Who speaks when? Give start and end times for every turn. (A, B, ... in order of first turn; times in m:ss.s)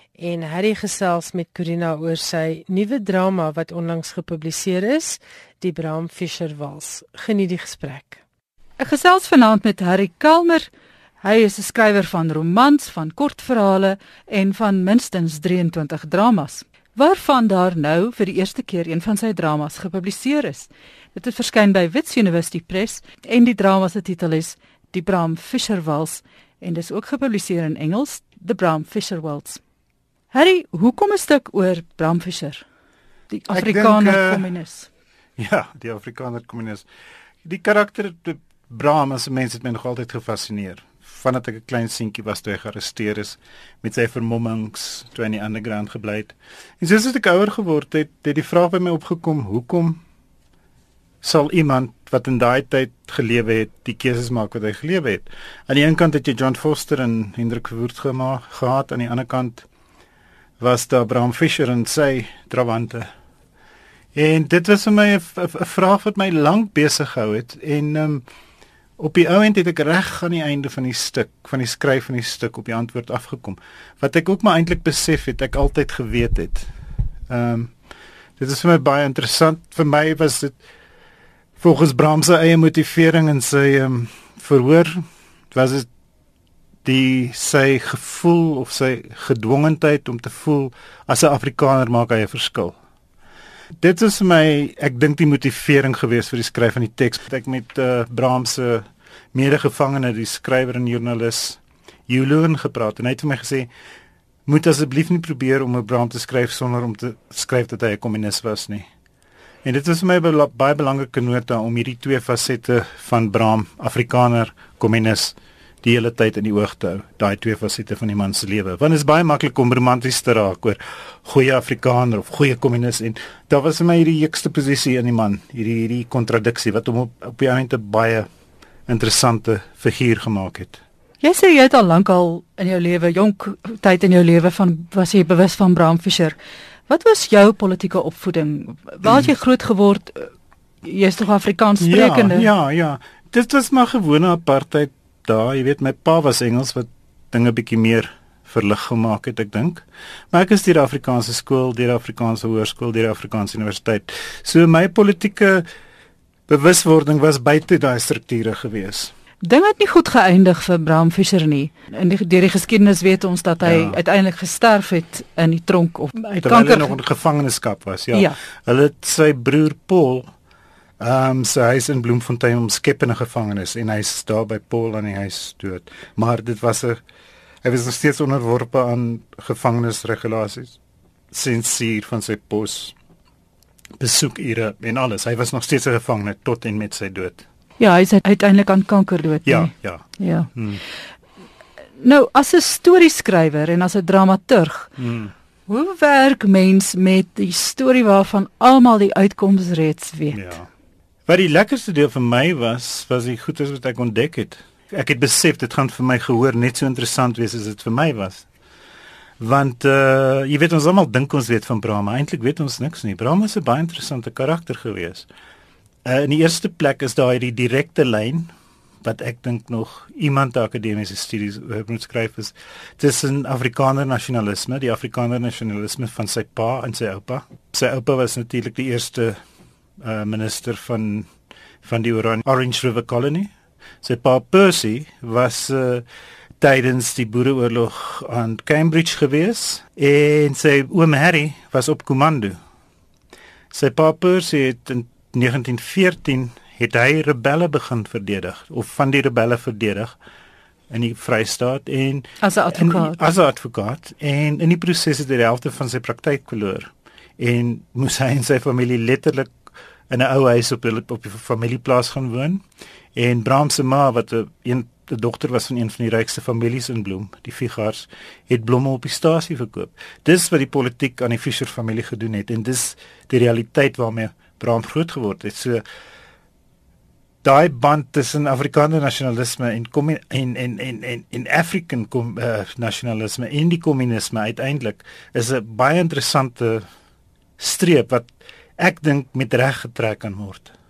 0:00.2-0:08.2 A
0:08.8-0:10.7 B
0:11.2-0:29.6 B
0:30.3-0:32.6 B
0:33.3-0:34.9 B
0:33.5-0:34.5 C
0:35.4-0:36.8 C
0:37.4-0:50.0 C
0:51.2-0:59.7 C
1:00.6-1:03.1 C
1:04.2-1:08.2 C
1:09.0-1:16.7 C
1:17.3-1:17.7 C
1:18.4-1:20.6 C
1:21.6-1:25.9 C
1:26.8-1:32.8 C
1:33.8-1:43.7 C
1:44.5-1:48.9 C
1:49.6-2:08.3 C
2:08.9-2:10.8 C
2:11.2-2:16.4 B
2:16.9-2:20.3 B
2:20.8-2:22.5 B
2:21.8-2:35.7 C
2:36.5-2:39.1 C
2:39.4-2:46.9 B
2:43.6-2:44.0 C
2:46.4-2:50.3 C
2:48.1-2:48.4 B
2:51.0-2:57.0 C
2:57.6-3:00.8 C
3:01.3-3:03.0 C
3:04.0-3:07.5 C
3:07.8-3:10.5 B
3:09.4-3:10.8 C
3:12.0-3:14.9 B
3:15.0-3:15.3 C
3:15.7-3:20.5 B
3:20.3-3:20.7 C
3:21.2-3:28.5 C
3:29.4-3:35.3 C
3:36.0-3:38.5 C
3:39.0-3:49.4 C
3:50.0-3:51.3 C
3:51.8-3:53.5 C
3:54.0-3:56.0 C
3:56.6-4:02.6 C
4:03.7-4:10.2 C
4:10.9-4:19.5 C
4:12.4-4:13.2 B
4:20.1-4:22.6 C
4:23.1-4:35.8 C
4:37.4-4:46.9 C
4:47.6-4:50.7 C